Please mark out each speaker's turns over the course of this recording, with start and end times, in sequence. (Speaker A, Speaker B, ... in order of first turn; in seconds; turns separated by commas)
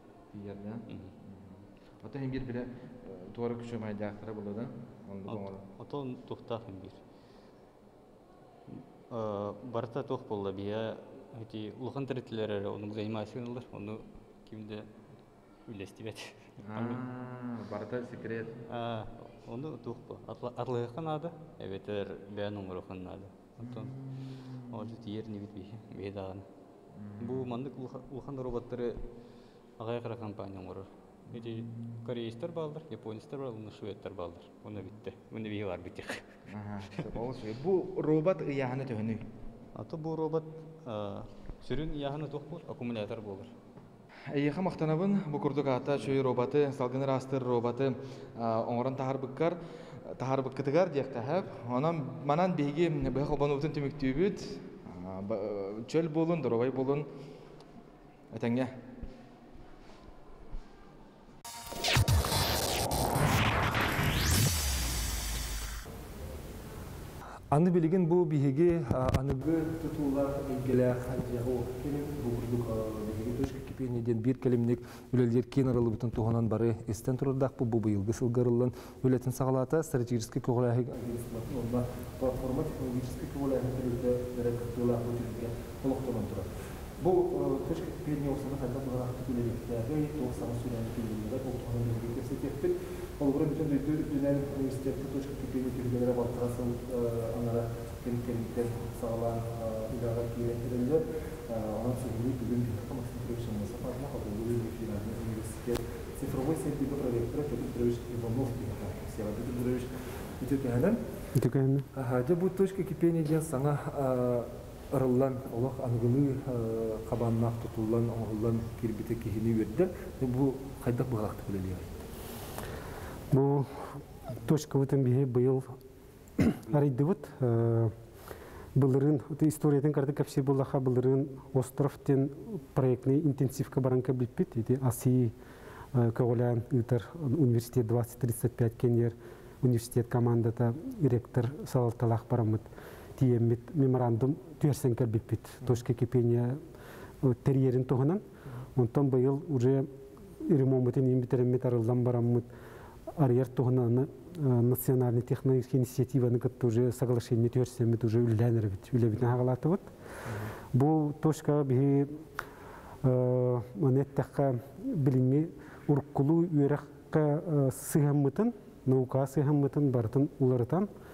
Speaker A: 0.3-5.6, Speaker B: 0.9-1.1, Speaker B: 5.3-7.0, Speaker B: 8.7-14.9, Speaker B: 15.7-17.0, Speaker A: 16.6-18.6, Speaker B: 18.7-23.9, Speaker A: 23.6-24.9, Speaker B: 24.6-26.4, Speaker A: 26.9-27.5, Speaker B: 27.2-29.0, Speaker B: 29.8-36.4, Speaker A: 31.3-32.0, Speaker A: 36.5-39.2, Speaker B: 39.7-43.5, Speaker A: 44.3-57.1, Speaker A: 58.3-58.7, Speaker C: 67.5-111.0, Speaker D: 111.3-111.9, Speaker C: 111.9-122.0, Speaker D: 123.3-125.7, Speaker D: 126.4-127.9, Speaker D: 128.7-135.3, Speaker D: 135.9-146.6, Speaker D: 147.2-148.2, Speaker D: 148.7-149.9, Speaker D: 150.4-152.5, Speaker D: 153.2-159.9, Speaker C: 160.2-160.5, Speaker D: 160.7-162.2, Speaker D: 163.0-170.9